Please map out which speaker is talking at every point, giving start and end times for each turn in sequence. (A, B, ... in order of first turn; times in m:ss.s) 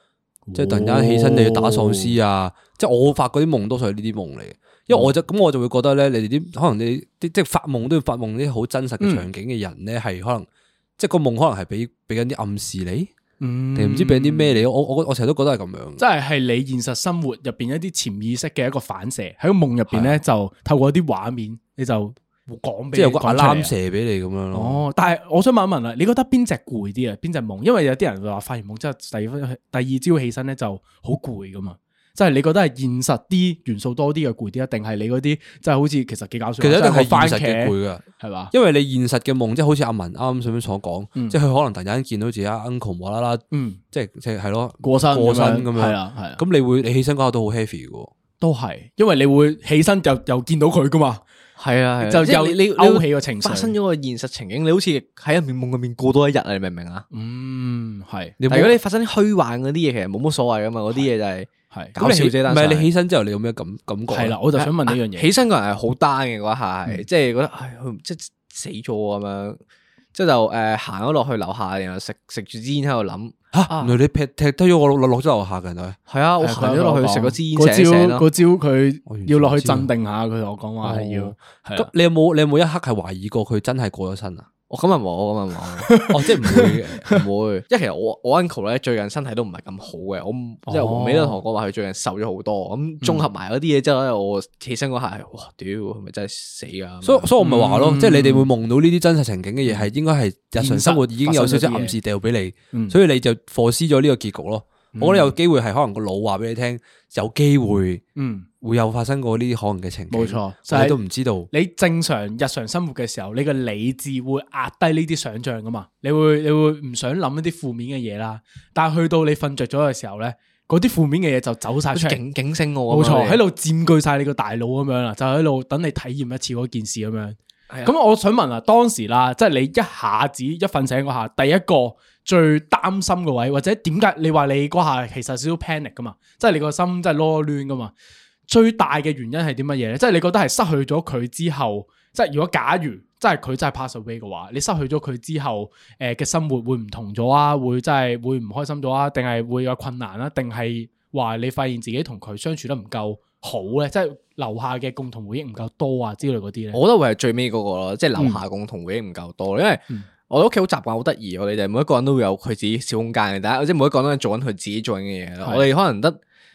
0:00.5-0:02.2 A
0:00.5-0:10.5 B
0:09.0-0:09.2 A
0:11.0-0:13.1 B
0:13.4-0:14.6 A
0:13.7-0:16.0 B
0:16.0-0:23.7 A
0:22.9-0:24.8 B
0:24.5-0:38.5 A
0:36.6-0:48.1 B
0:43.5-0:43.8 A
0:44.8-0:46.4 A
0:48.4-0:51.2 A
0:51.6-0:57.0 C
0:52.0-0:53.7 A
0:57.1-0:58.4 A
0:58.4-0:58.7 B
0:58.5-1:02.9 C
1:02.0-1:04.4 B
1:04.1-1:05.3 A
1:04.6-1:09.6 C
1:10.1-1:14.0 C
1:13.5-1:16.0 B
1:16.1-1:18.2 C
1:16.4-1:21.9 A
1:19.1-1:19.9 B
1:20.8-1:24.5 B
1:24.7-1:25.9 C
1:25.8-1:27.2 A
1:26.1-1:27.0 B
1:27.1-1:37.3 C
1:30.7-1:31.4 A
1:37.0-1:48.0 B
1:37.4-1:38.5 A
1:40.6-1:42.0 A
1:44.9-1:45.4 A
1:48.2-1:48.5 A
1:48.6-1:51.5 B
1:50.1-2:02.2 A
2:01.9-2:03.4 C
2:02.9-2:17.9 A
2:18.5-2:36.8 A
2:36.7-2:46.2 C